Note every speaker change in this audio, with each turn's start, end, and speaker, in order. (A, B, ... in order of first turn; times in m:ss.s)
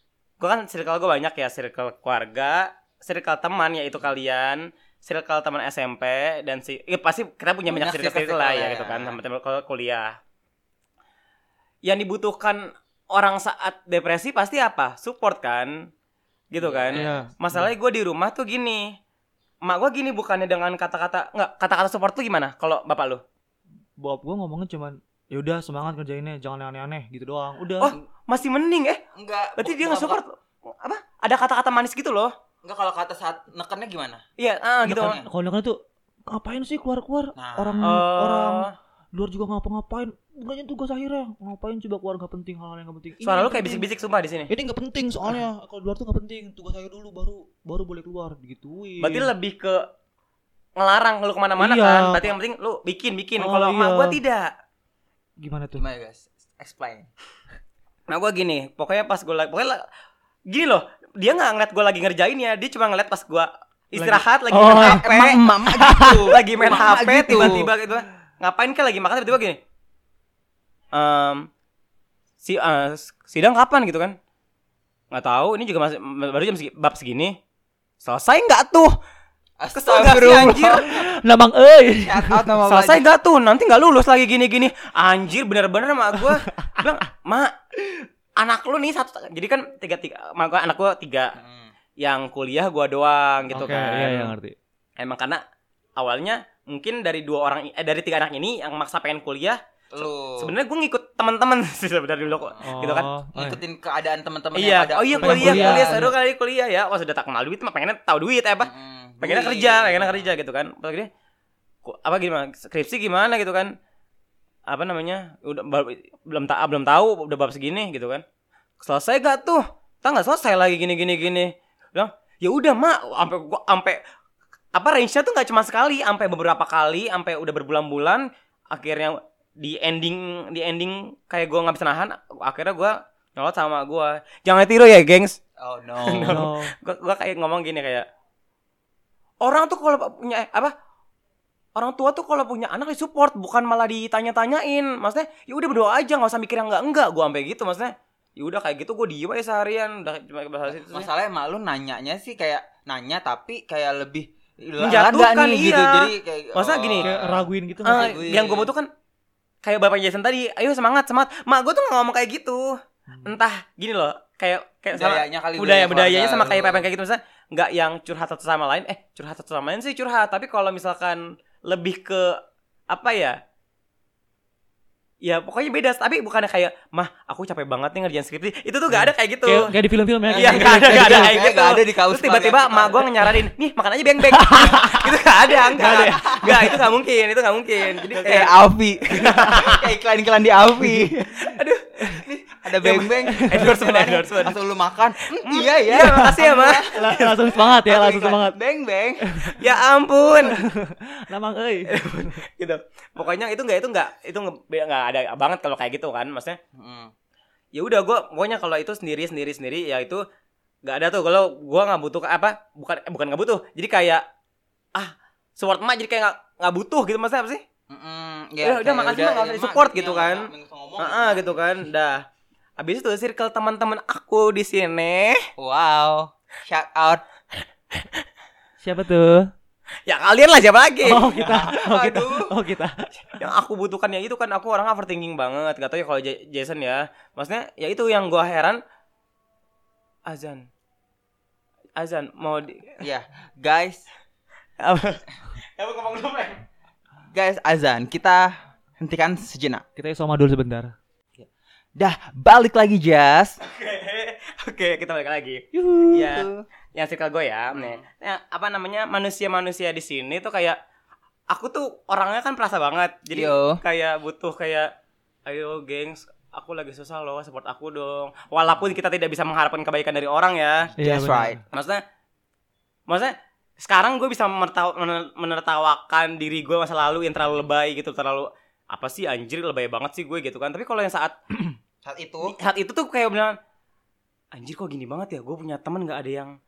0:00.4-0:10.2 A
0:07.7-0:09.2 B
0:11.8-0:15.9 A
0:16.5-0:19.0 A
0:16.6-0:17.2 B
0:16.9-0:17.7 C
0:19.6-0:23.2 A
0:24.0-0:28.0 C
0:27.8-0:29.0 A
0:29.1-0:30.2 B
0:29.6-0:32.3 A
0:32.6-0:34.2 B
0:34.4-0:35.2 A
0:34.8-0:35.3 B
0:34.9-0:43.9 C
0:37.4-0:38.0 B
0:37.8-0:38.7 A
0:43.2-0:44.5 A
0:44.5-0:49.3 C
0:49.0-0:49.8 A
0:50.8-0:54.5 A
0:51.6-0:52.3 C
0:53.4-0:54.2 C
0:55.4-0:55.9 C
0:55.8-0:57.1 B
0:58.1-0:59.8 A
1:00.5-1:05.4 A
1:04.0-1:05.1 C
1:04.7-1:07.7 B
1:05.7-1:06.2 C
1:06.0-1:09.6 A
1:07.3-1:07.6 C
1:10.9-1:11.5 A
1:12.4-1:14.2 A
1:15.1-1:17.4 A
1:18.0-1:19.0 A
1:19.6-1:21.0 B
1:19.7-1:20.9 A
1:20.8-1:22.5 C
1:22.0-1:23.0 B
1:22.6-1:27.5 A
1:26.2-1:26.9 C
1:28.4-1:31.4 A
1:31.4-1:31.7 B
1:32.0-1:34.3 A
1:33.5-1:34.6 C
1:35.0-1:35.4 A
1:36.0-1:39.6 A
1:39.9-1:40.6 B
1:40.4-1:43.1 A
1:42.4-1:46.1 B
1:42.6-1:43.6 C
1:44.6-1:51.1 A
1:45.2-1:46.1 C
1:48.6-1:50.3 B
1:51.8-1:53.7 A
1:54.7-1:58.2 A
1:58.8-2:04.0 A
2:04.7-2:15.4 A
2:15.6-2:16.5 B
2:16.0-2:18.1 A
2:16.2-2:16.7 C
2:19.4-2:20.7 A
2:21.8-2:31.1 A
2:30.7-2:38.7 B
2:34.8-2:37.1 A
2:37.0-2:38.2 C
2:37.8-2:38.9 A
2:39.6-2:53.4 A
2:43.1-2:43.4 C
2:44.9-2:46.9 B
2:55.2-2:59.7 A
2:58.9-3:01.4 C
3:00.3-3:03.1 B
3:00.3-3:08.5 A
3:04.3-3:05.1 C
3:05.6-3:06.8 B
3:05.7-3:06.8 C
3:08.1-3:11.2 B
3:09.1-3:09.8 A
3:09.2-3:09.6 C
3:10.8-3:12.2 C
3:11.4-3:11.8 A
3:12.0-3:19.3 B
3:12.8-3:13.7 C
3:13.5-3:14.6 A
3:15.4-3:16.9 A
3:16.8-3:18.6 C
3:19.2-3:19.6 C
3:19.6-3:20.6 A
3:20.4-3:22.4 C
3:21.9-3:26.6 A
3:26.7-3:27.1 B
3:27.7-3:30.2 A
3:30.8-3:34.2 A
3:34.9-3:37.6 A
3:37.9-3:41.6 B
3:38.6-3:42.2 A
3:42.8-3:45.4 A
3:45.6-3:47.2 B
3:48.8-3:49.5 C
3:50.1-3:51.4 A
3:51.0-3:53.4 C
3:51.3-3:52.5 B
3:53.3-3:58.8 A
4:00.3-4:00.6 A
4:02.0-4:03.0 A
4:03.0-4:04.1 B
4:04.8-4:06.6 A
4:07.3-4:09.8 B
4:10.0-4:10.9 C
4:11.4-4:13.6 B
4:13.6-4:20.8 A
4:15.8-4:16.1 C
4:16.1-4:16.6 B
4:17.7-4:18.0 B
4:21.5-4:24.9 A
4:23.3-4:23.8 B
4:25.5-4:30.9 A
4:31.0-4:31.6 B
4:31.0-4:31.6 C
4:31.7-4:32.0 A
4:33.1-4:41.4 A
4:42.0-4:42.6 B
4:42.4-4:43.6 A
4:44.5-4:46.6 A